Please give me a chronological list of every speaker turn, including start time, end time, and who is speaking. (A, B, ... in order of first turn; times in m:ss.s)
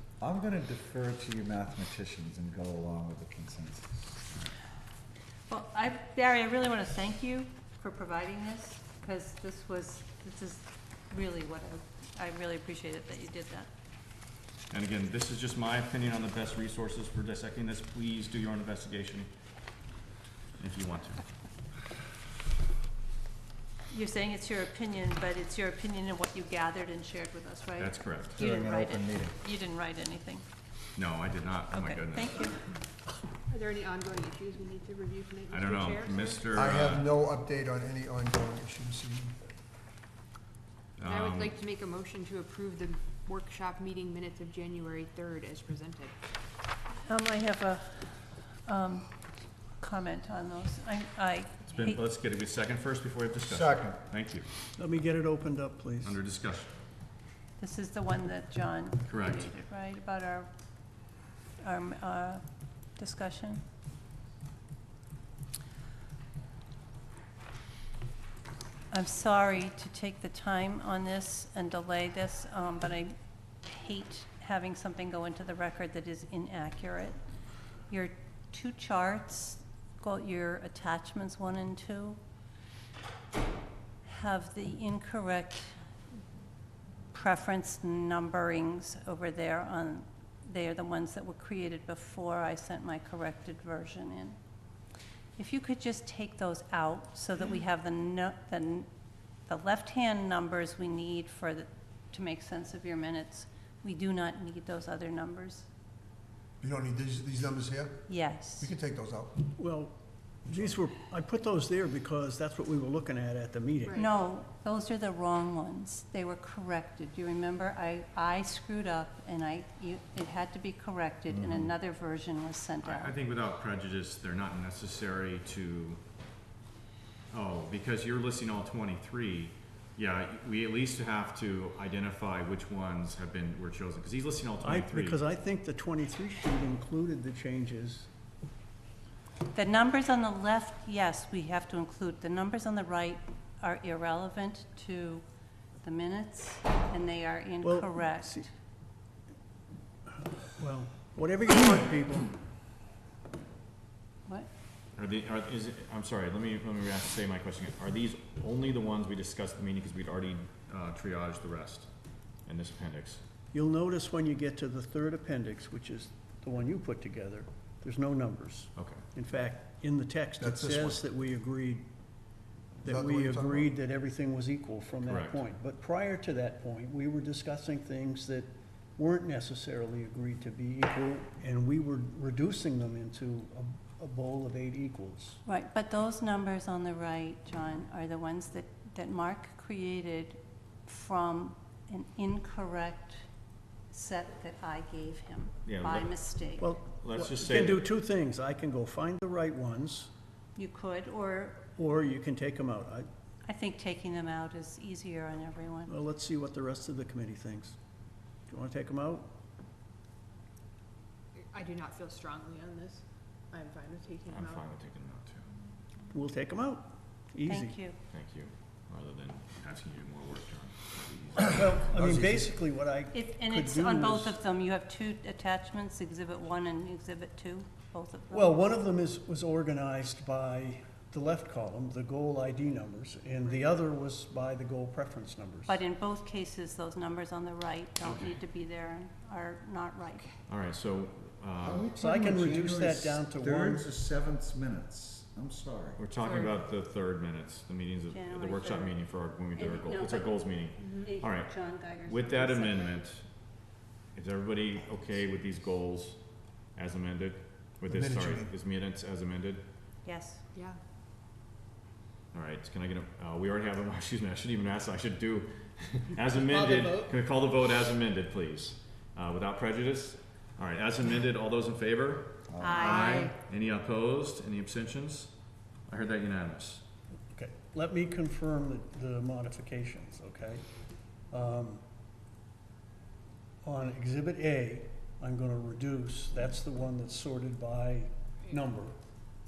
0:00.2-0:04.2 A
0:05.5-0:13.7 B
0:14.7-0:19.3 C
0:20.6-0:21.2 C
0:23.9-0:30.4 B
0:27.8-0:28.4 C
0:28.4-0:29.4 A
0:31.0-0:32.5 C
0:31.7-0:32.6 B
0:33.5-0:36.5 D
0:35.5-0:37.1 C
0:36.5-0:39.4 E
0:41.0-0:41.6 C
0:41.0-0:46.2 D
0:47.0-0:49.2 B
0:49.8-0:52.0 B
0:51.7-0:54.5 C
0:53.4-0:54.0 A
0:54.8-0:56.2 F
0:56.0-0:56.7 C
0:57.6-1:00.5 B
0:59.1-0:59.5 C
1:01.6-1:03.6 B
1:08.9-1:17.2 B
1:17.9-1:22.2 B
1:24.0-1:25.8 B
1:27.1-1:34.4 B
1:35.4-1:38.9 B
1:39.5-1:45.7 B
1:46.6-1:49.4 E
1:48.1-1:48.7 B
1:49.6-1:49.9 F
1:50.5-1:54.0 F
1:53.8-1:54.2 D
1:53.9-2:03.2 B
2:01.3-2:01.7 A
2:02.8-2:06.0 C
2:07.3-2:15.2 C
2:14.6-2:18.1 F
2:19.5-2:25.2 B
2:25.8-2:28.5 B
2:27.6-2:28.5 F
2:30.2-2:32.4 F
2:35.0-2:43.2 C
2:43.5-2:51.9 F
2:48.8-2:49.0 C
2:50.4-2:51.0 E
2:52.8-2:53.7 E
2:52.8-3:05.4 F
2:55.0-2:55.4 C
3:05.4-3:13.2 B
3:13.9-3:16.7 B
3:15.6-3:16.3 C
3:16.6-3:20.1 F
3:17.0-3:17.8 C
3:20.6-3:21.7 B
3:21.8-3:23.1 F
3:23.4-3:25.9 B
3:25.9-3:27.8 F
3:28.5-3:29.3 F
3:31.5-3:34.7 D
3:34.3-3:35.5 C
3:36.1-3:37.8 F
3:37.4-3:38.0 B
3:38.1-3:42.4 C
3:41.4-3:44.4 F
3:43.1-3:48.6 B
3:48.3-3:55.8 F
3:55.7-4:00.3 B
3:58.0-3:58.4 C
4:00.5-4:01.9 C
4:01.6-4:06.1 A
4:02.0-4:03.8 F
4:06.0-4:13.5 C
4:06.2-4:06.6 D
4:08.1-4:12.9 B
4:10.8-4:11.1 D
4:14.1-4:19.7 C
4:17.9-4:18.6 E
4:20.0-4:20.4 B
4:20.5-4:20.8 D
4:22.3-4:36.8 C
4:26.4-4:27.1 D
4:32.5-4:33.3 A
4:32.6-4:33.4 B
4:37.3-4:40.6 F
4:41.3-4:41.8 F
4:43.6-4:49.0 F